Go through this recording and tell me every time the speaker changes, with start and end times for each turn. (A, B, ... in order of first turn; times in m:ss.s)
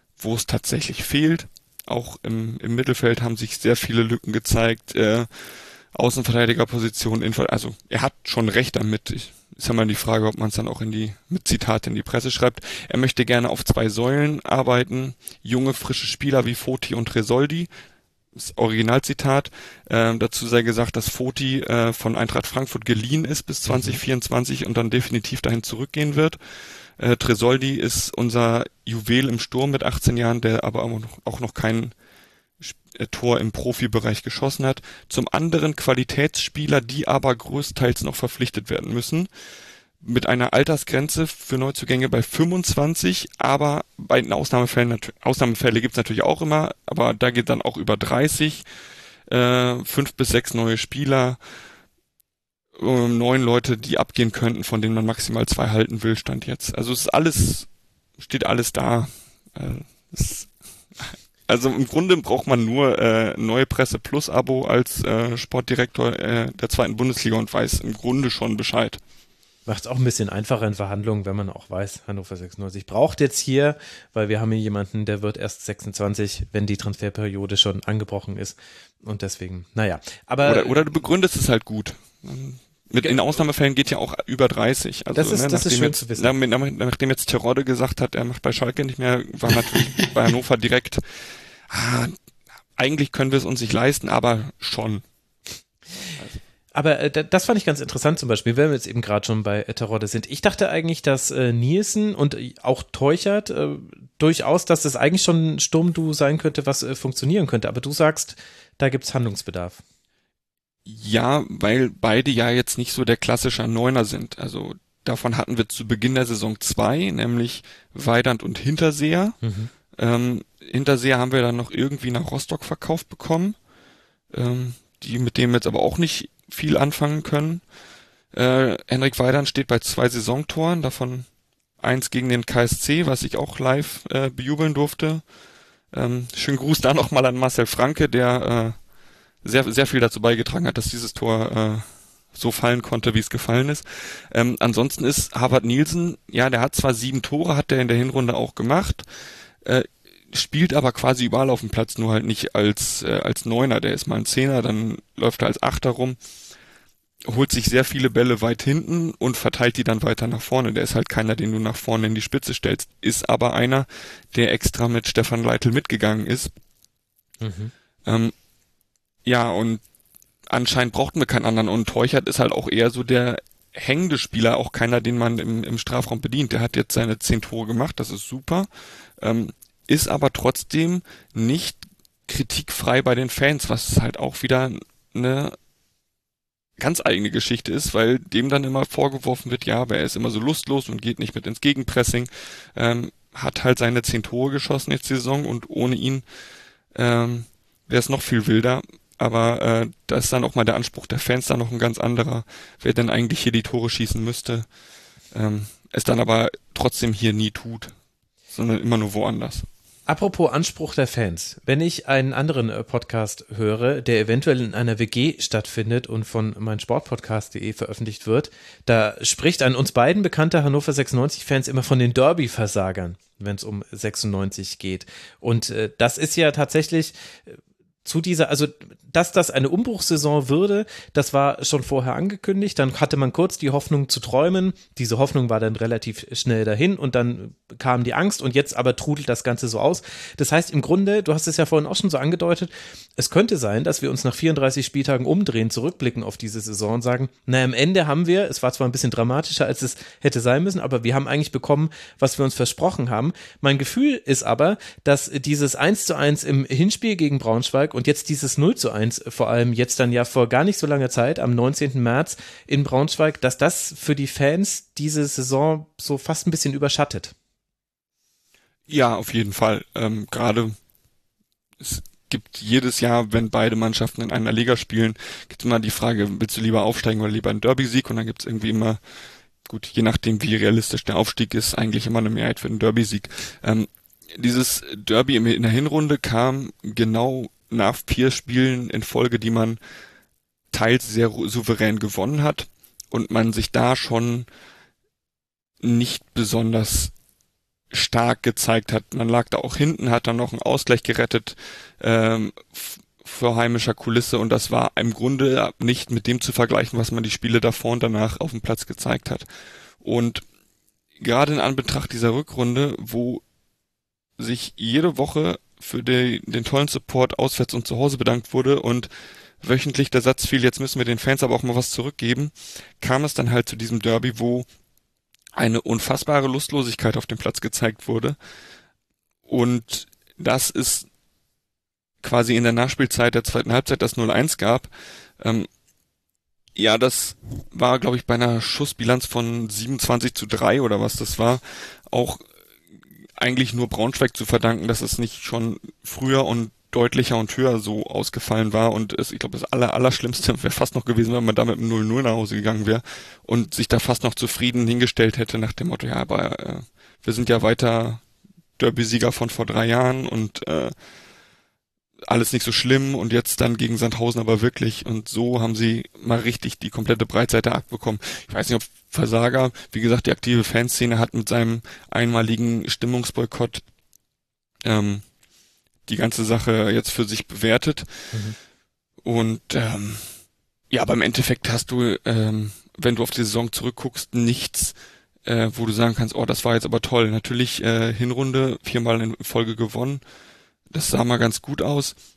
0:00.2-0:05.3 A
0:05.9-0:17.7 A
0:18.4-0:26.4 A
0:23.7-0:24.0 B
0:27.0-0:31.9 A
0:32.6-0:39.3 A
0:40.0-0:48.6 A
0:49.3-0:51.4 A
0:52.8-0:57.7 A
0:58.2-1:09.0 A
1:09.7-1:20.9 B
1:20.4-1:31.0 A
1:25.1-1:26.3 B
1:31.7-1:32.1 A
1:32.8-1:35.0 A
1:36.8-1:49.8 B
1:50.9-1:59.4 A
1:59.4-1:59.7 B
2:00.0-2:03.6 A
2:04.3-2:07.6 A
2:08.3-2:11.3 A
2:11.8-2:15.2 A
2:15.9-2:18.8 A
2:19.4-2:29.0 A
2:29.6-2:36.2 A
2:37.3-2:46.5 A
2:47.4-2:47.7 B
2:48.1-2:48.3 A
2:49.2-2:49.8 A
2:50.5-2:58.7 A
2:59.2-3:05.6 A
3:06.8-3:16.2 A
3:17.0-3:24.7 A
3:25.3-3:27.9 A
3:28.5-3:29.7 A
3:30.1-4:27.3 B
4:28.9-4:30.8 A
4:31.8-4:39.0 A
4:39.7-4:49.8 A
4:50.7-4:54.5 A
4:55.8-4:57.1 A
4:57.9-5:09.5 A
5:10.0-5:10.4 A
5:11.2-5:13.4 A
5:14.4-5:19.1 A
5:19.6-5:24.7 A
5:25.6-5:28.4 A
5:29.5-5:31.1 A
5:32.2-5:35.7 A
5:36.8-5:42.4 A
5:43.4-5:58.2 A
5:58.8-6:00.9 A
6:02.3-6:13.8 A
6:14.8-6:15.2 A
6:16.1-6:18.1 A
6:19.2-6:20.4 A
6:20.9-6:25.0 A
6:25.5-6:30.2 A
6:30.9-6:32.2 A